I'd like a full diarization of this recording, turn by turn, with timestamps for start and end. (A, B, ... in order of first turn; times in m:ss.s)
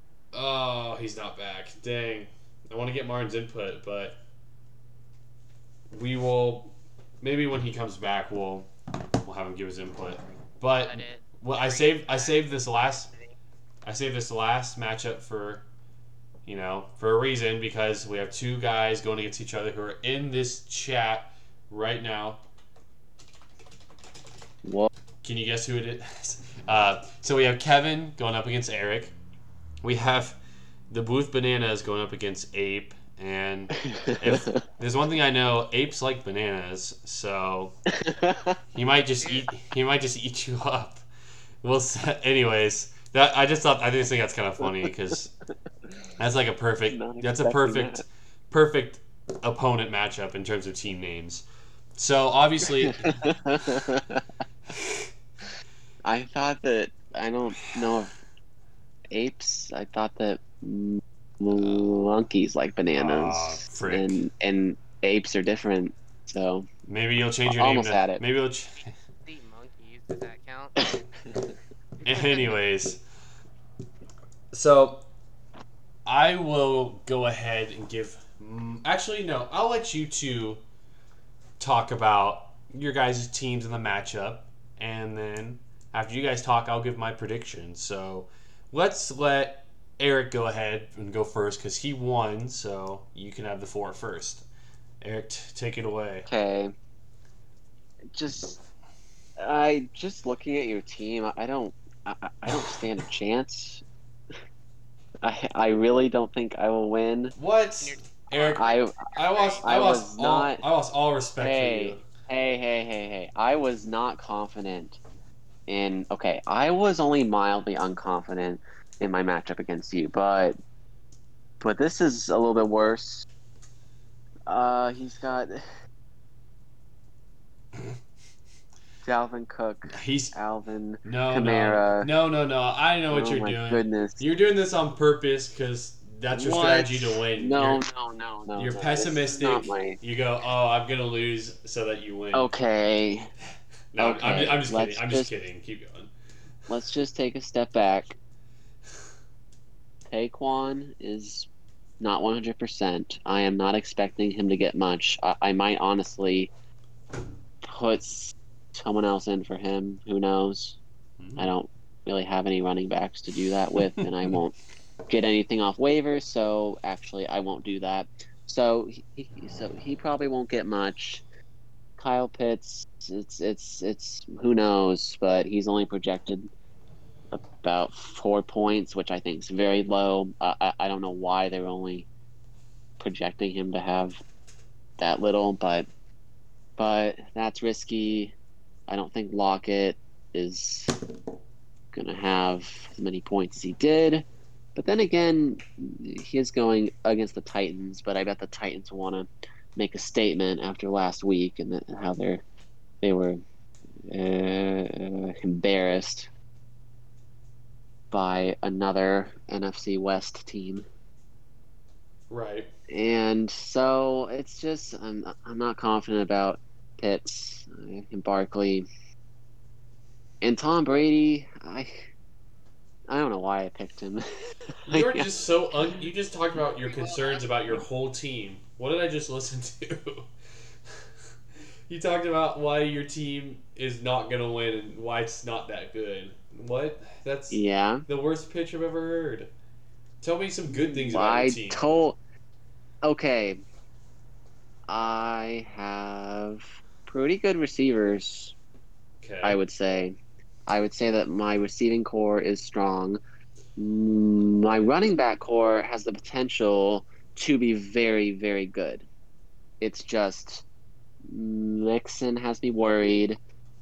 0:00.3-0:04.2 A
0:05.9-0:08.7 A
0:09.2-0:13.1 A
0:10.8-0:13.3 B
0:13.8-0:15.6 A
0:16.4-0:22.4 A
0:24.6-0:24.9 C
0:25.2-0:29.1 A
0:29.8-0:30.4 A
0:30.9-0:37.8 A
0:33.9-0:34.6 C
0:37.9-0:38.6 C
0:38.7-0:41.0 A
0:39.2-0:39.5 B
0:41.6-0:45.3 A
0:46.2-0:51.4 A
0:46.9-0:48.0 C
0:52.0-0:53.2 A
0:52.9-0:54.2 C
0:54.7-0:55.1 A
0:56.0-0:58.1 C
0:59.1-1:06.7 C
1:01.5-1:02.0 A
1:02.9-1:04.2 A
1:06.9-1:08.9 A
1:07.4-1:08.2 C
1:09.2-1:11.0 B
1:12.0-1:13.0 A
1:14.5-1:15.0 A
1:16.0-1:20.6 A
1:21.6-1:34.5 A
1:35.0-1:36.3 A
1:36.2-1:36.7 C
1:38.1-1:38.6 C
1:39.4-1:43.8 C
1:45.2-1:47.3 C
1:47.4-1:52.0 A
1:47.8-1:49.7 B
1:48.5-1:50.6 C
1:51.4-1:55.0 C
1:55.7-2:00.6 C
2:01.6-2:03.3 C
2:04.5-2:05.6 C
2:09.0-2:12.1 C
2:09.9-2:10.3 A
2:11.0-2:17.8 A
2:13.1-2:14.2 C
2:16.3-2:20.0 C
2:18.6-2:22.5 A
2:22.3-2:23.3 C
2:23.9-2:26.1 A
2:24.0-2:25.3 C
2:26.7-2:28.2 C
2:30.1-2:31.5 C
2:32.0-2:36.5 C
2:37.6-2:40.8 C
2:41.2-2:41.5 A
2:41.4-2:51.2 C
2:52.0-2:56.5 C
2:57.3-3:02.1 C
3:03.0-3:04.2 C
3:05.0-3:05.9 C
3:06.8-3:08.3 C
3:08.9-3:11.0 C
3:11.9-3:22.4 C
3:23.0-3:23.4 C
3:24.0-3:26.3 C
3:28.1-3:30.9 C
3:32.3-3:32.7 A
3:32.9-3:38.9 C
3:40.4-3:42.1 C
3:43.1-3:45.3 C
3:44.8-3:50.3 A
3:46.8-3:47.8 B
3:51.9-3:59.5 A
3:57.5-3:58.0 C
4:00.2-4:01.9 A
4:00.7-4:02.2 C
4:03.0-4:03.6 C
4:04.9-4:08.5 C
4:09.2-4:09.6 A
4:09.4-4:13.2 C
4:13.8-4:19.1 C
4:19.8-4:20.6 C
4:21.3-4:23.4 C